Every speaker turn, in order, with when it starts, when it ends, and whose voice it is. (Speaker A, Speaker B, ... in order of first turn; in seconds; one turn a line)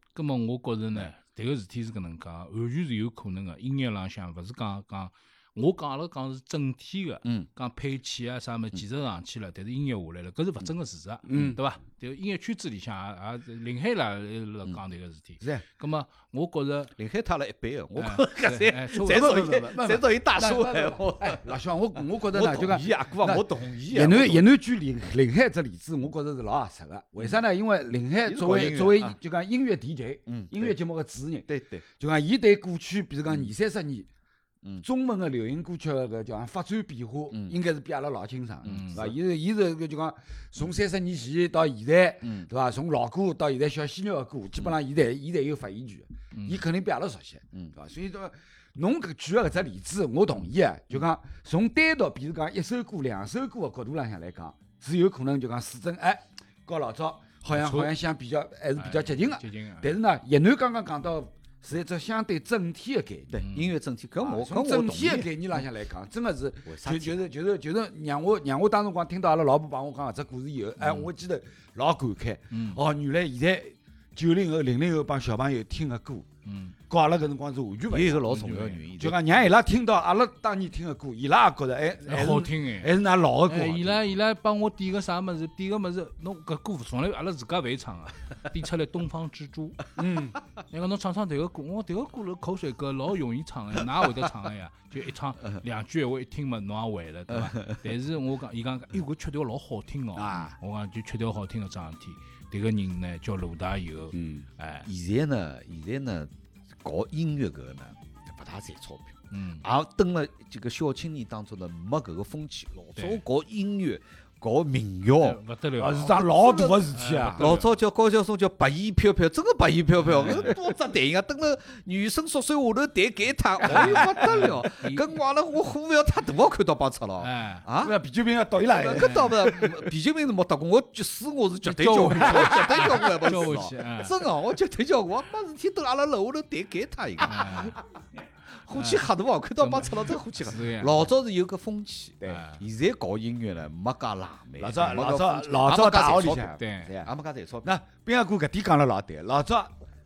Speaker A: 0.2-16.9
Speaker B: 11.3-11.6
Speaker C: 17.0-21.5
Speaker A: 18.0-19.4
Speaker B: 19.0-34.1
Speaker C: 22.2-24.5
Speaker C: 28.2-29.2
Speaker C: 30.3-30.7
Speaker C: 31.5-31.9
Speaker B: 34.8-63.5
Speaker C: 37.3-37.6
Speaker A: 38.6-39.1
Speaker C: 38.7-39.1
Speaker C: 42.2-42.5
Speaker A: 46.3-46.6
Speaker A: 57.5-57.9
Speaker A: 58.8-60.0
Speaker C: 63.4-65.3
Speaker A: 63.4-63.8
Speaker B: 64.2-76.3
Speaker C: 66.7-67.2
Speaker A: 70.8-71.1
Speaker A: 72.5-72.8
Speaker A: 76.5-76.8
Speaker B: 76.9-78.3
Speaker C: 77.9-79.5
Speaker A: 78.3-78.8
Speaker B: 79.0-84.0
Speaker A: 82.1-82.9
Speaker A: 83.5-89.8
Speaker B: 90.0-90.4
Speaker A: 90.7-104.9
Speaker C: 97.5-97.8
Speaker B: 100.2-100.5
Speaker B: 104.1-104.5
Speaker C: 104.8-106.3
Speaker C: 106.8-115.4
Speaker A: 109.3-109.7
Speaker A: 113.0-113.2
Speaker A: 115.2-116.2
Speaker B: 115.8-117.6
Speaker C: 116.1-128.0
Speaker A: 116.9-117.7
Speaker A: 120.0-120.6
Speaker A: 123.6-125.1
Speaker B: 123.8-124.1
Speaker A: 127.2-127.7
Speaker B: 127.8-129.7
Speaker C: 128.7-137.8
Speaker A: 129.0-129.3
Speaker A: 131.6-134.2
Speaker A: 137.2-137.8
Speaker C: 138.7-147.7
Speaker A: 138.7-139.1
Speaker A: 139.6-141.1
Speaker A: 142.2-142.6
Speaker B: 144.6-147.1
Speaker A: 146.5-146.9
Speaker B: 147.6-149.8